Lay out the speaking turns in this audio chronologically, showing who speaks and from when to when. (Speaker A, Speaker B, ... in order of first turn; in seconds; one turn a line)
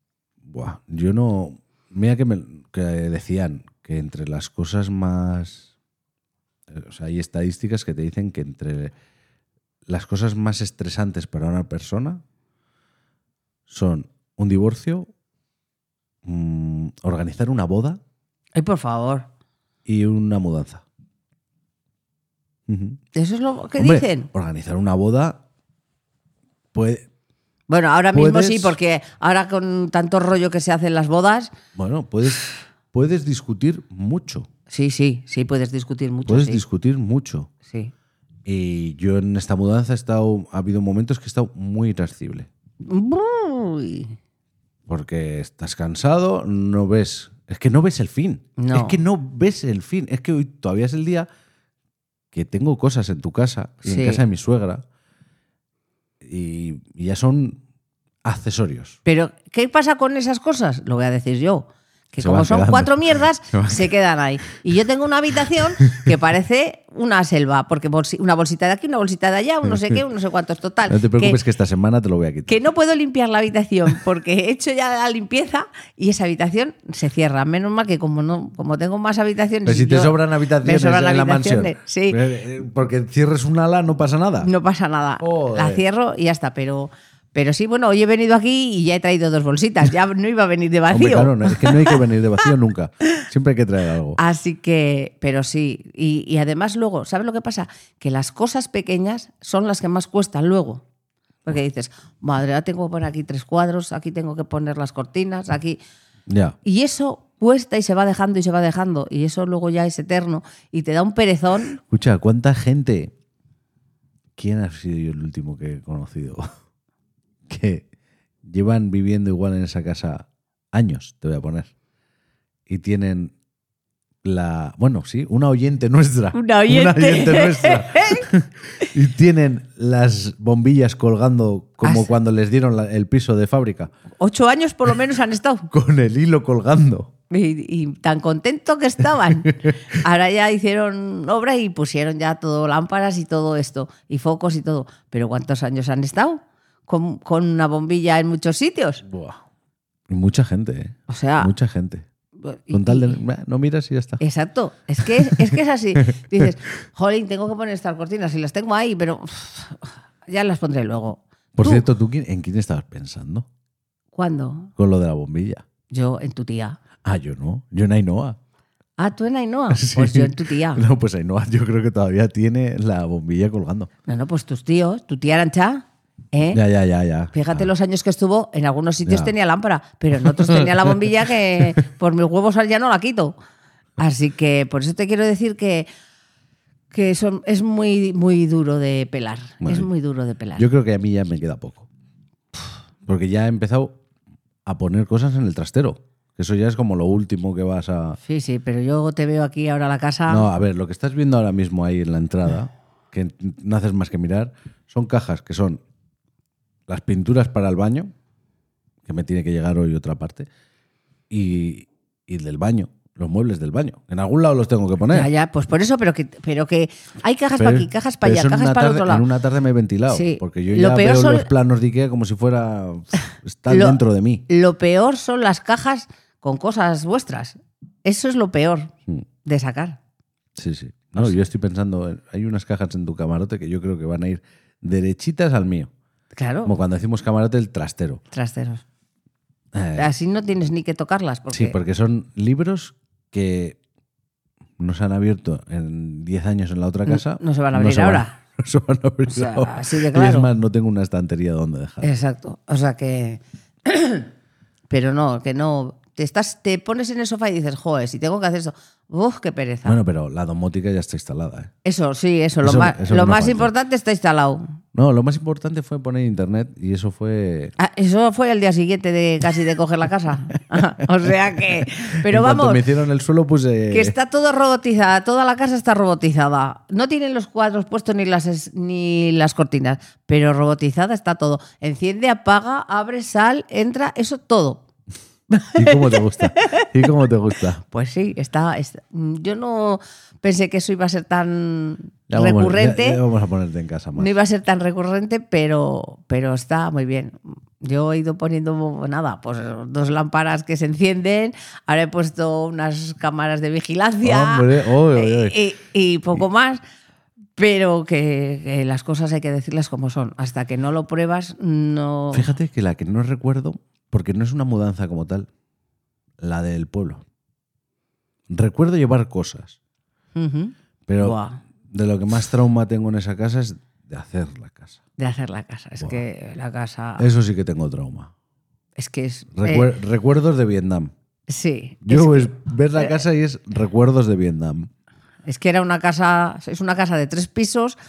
Speaker A: 0.4-5.7
Speaker A: 6.7-8.9
Speaker A: 9.9-12.2
Speaker A: 13.7-15.1
Speaker A: 16.2-18.0
Speaker B: 18.6-19.3
Speaker A: 19.9-20.8
Speaker A: 22.7-23.0
Speaker B: 23.1-24.3
Speaker A: 23.8-25.4
Speaker A: 26.7-27.1
Speaker B: 27.7-31.5
Speaker A: 28.1-28.8
Speaker A: 31.7-34.5
Speaker B: 34.7-36.6
Speaker A: 36.3-37.5
Speaker B: 37.7-37.9
Speaker A: 38.5-42.5
Speaker B: 42.8-44.1
Speaker A: 44.9-51.3
Speaker B: 48.6-49.0
Speaker A: 52.3-54.8
Speaker B: 53.9-54.2
Speaker A: 56.2-57.6
Speaker A: 58.2-59.0
Speaker B: 59.0-71.4
Speaker A: 62.2-63.9
Speaker A: 69.6-70.0
Speaker A: 70.9-72.6
Speaker B: 72.5-82.2
Speaker A: 79.7-84.5
Speaker B: 84.4-92.0
Speaker A: 85.2-85.8
Speaker A: 90.9-94.2
Speaker B: 94.2-100.8
Speaker B: 101.4-105.8
Speaker A: 106.3-106.5
Speaker B: 106.6-111.8
Speaker A: 111.8-113.1
Speaker A: 114.4-116.5
Speaker A: 117.5-117.8
Speaker A: 118.4-121.7
Speaker A: 122.7-123.3
Speaker A: 124.2-133.9
Speaker B: 126.3-128.3
Speaker B: 131.8-132.1
Speaker B: 134.2-135.7
Speaker A: 135.7-137.1
Speaker B: 137.3-149.0
Speaker A: 139.4-139.8
Speaker A: 149.0-149.4
Speaker A: 150.1-152.1
Speaker B: 151.1-151.5
Speaker B: 152.4-153.2
Speaker A: 152.7-154.2
Speaker B: 154.2-161.8
Speaker A: 155.0-155.5
Speaker A: 161.6-163.5
Speaker B: 164.1-164.7
Speaker A: 164.8-165.6
Speaker B: 165.9-166.8
Speaker A: 167.0-168.4
Speaker B: 169.0-170.8
Speaker A: 169.7-173.9
Speaker B: 174.1-176.6
Speaker A: 176.5-177.7
Speaker B: 177.3-183.3
Speaker A: 179.1-179.3
Speaker A: 180.2-180.9
Speaker B: 184.0-185.9
Speaker B: 186.9-190.7
Speaker A: 189.6-189.9
Speaker A: 190.6-191.9
Speaker A: 193.0-194.0
Speaker A: 194.6-198.2
Speaker B: 198.2-200.5
Speaker A: 200.3-205.8
Speaker A: 206.9-208.1
Speaker A: 209.0-210.5
Speaker A: 211.3-215.3
Speaker B: 215.1-219.2
Speaker A: 217.6-224.4
Speaker B: 220.1-221.5
Speaker B: 223.7-228.9
Speaker B: 229.4-230.0
Speaker A: 230.6-235.9
Speaker B: 236.4-236.7
Speaker A: 236.6-238.2
Speaker B: 238.3-238.8
Speaker A: 239.7-240.1
Speaker B: 239.9-241.8
Speaker A: 241.5-243.8
Speaker A: 244.8-252.1
Speaker B: 247.1-248.3
Speaker B: 249.3-250.5
Speaker B: 252.0-254.3
Speaker B: 254.9-260.0
Speaker A: 259.9-261.7
Speaker B: 261.8-264.8
Speaker A: 262.6-263.7
Speaker A: 264.9-267.7
Speaker B: 267.8-272.8
Speaker A: 272.2-274.1
Speaker B: 273.9-284.8
Speaker B: 285.5-286.9
Speaker A: 285.7-287.8
Speaker B: 287.9-293.2
Speaker A: 292.3-294.3
Speaker B: 294.1-306.8
Speaker A: 304.2-305.6
Speaker B: 307.6-312.5
Speaker A: 312.3-315.5
Speaker A: 316.4-317.2
Speaker A: 318.5-319.8
Speaker B: 320.3-321.6
Speaker A: 321.1-325.0
Speaker B: 325.2-327.3
Speaker A: 327.2-328.3
Speaker B: 329.0-329.9
Speaker A: 329.5-331.1
Speaker B: 331.5-333.2
Speaker A: 332.0-334.9
Speaker B: 335.4-338.0